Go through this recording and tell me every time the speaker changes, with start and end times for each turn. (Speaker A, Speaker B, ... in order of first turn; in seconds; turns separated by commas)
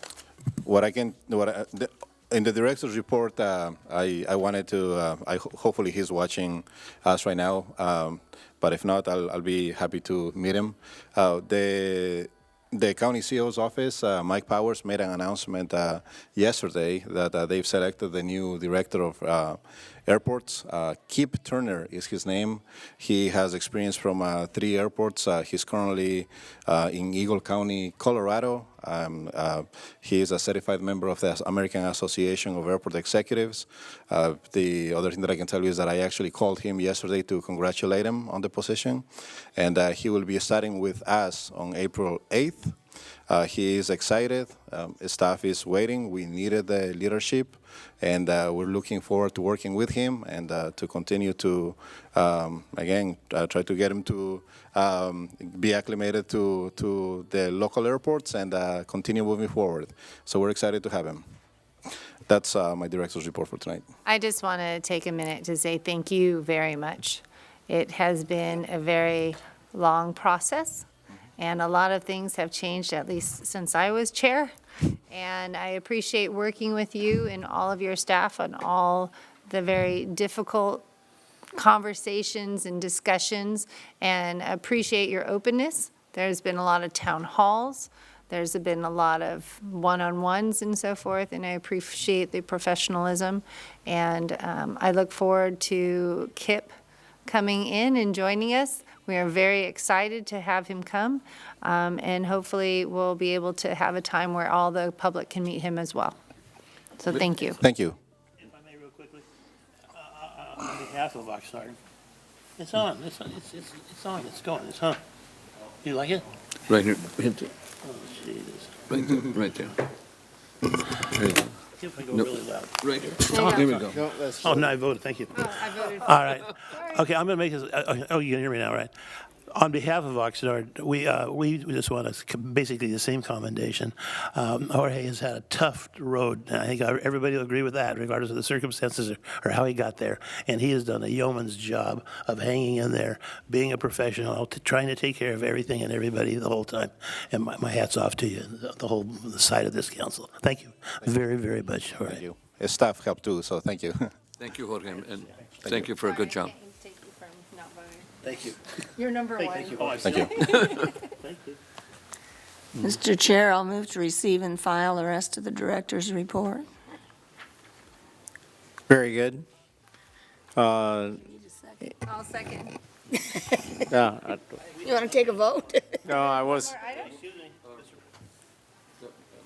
Speaker A: 0.6-39.0, Speaker A: 39.6-42.7, Speaker A: 43.3-61.2, Speaker A: 62.3-63.8, Speaker B: 64.1-70.9, Speaker B: 71.4-74.5, Speaker B: 75.1-80.8, Speaker B: 81.6-96.7, Speaker B: 97.3-106.2, Speaker B: 107.0-107.6, Speaker A: 107.6-108.0, Speaker C: 108.4-109.2, Speaker C: 110.0-111.8, Speaker C: 112.6-115.0, Speaker C: 115.8-116.3, Speaker D: 116.7-117.5, Speaker C: 117.8-118.8, Speaker D: 118.9-119.8, Speaker D: 121.0-121.5, Speaker C: 121.8-128.9, Speaker D: 122.1-124.0, Speaker B: 123.3-123.6, Speaker E: 123.9-124.7, Speaker B: 125.3-127.0, Speaker C: 129.5-152.2, Speaker A: 152.1-154.1, Speaker D: 154.4-156.5, Speaker B: 156.0-158.1, Speaker C: 158.2-158.6, Speaker B: 159.0-161.1, Speaker C: 159.4-161.6, Speaker A: 160.0-160.3, Speaker F: 162.8-166.7, Speaker E: 168.9-169.4, Speaker E: 170.6-171.2, Speaker F: 171.2-171.8, Speaker B: 172.0-172.8, Speaker E: 173.9-174.4, Speaker F: 174.8-176.0, Speaker C: 174.8-175.3, Speaker E: 176.0-176.8, Speaker B: 176.2-177.2, Speaker C: 176.8-177.5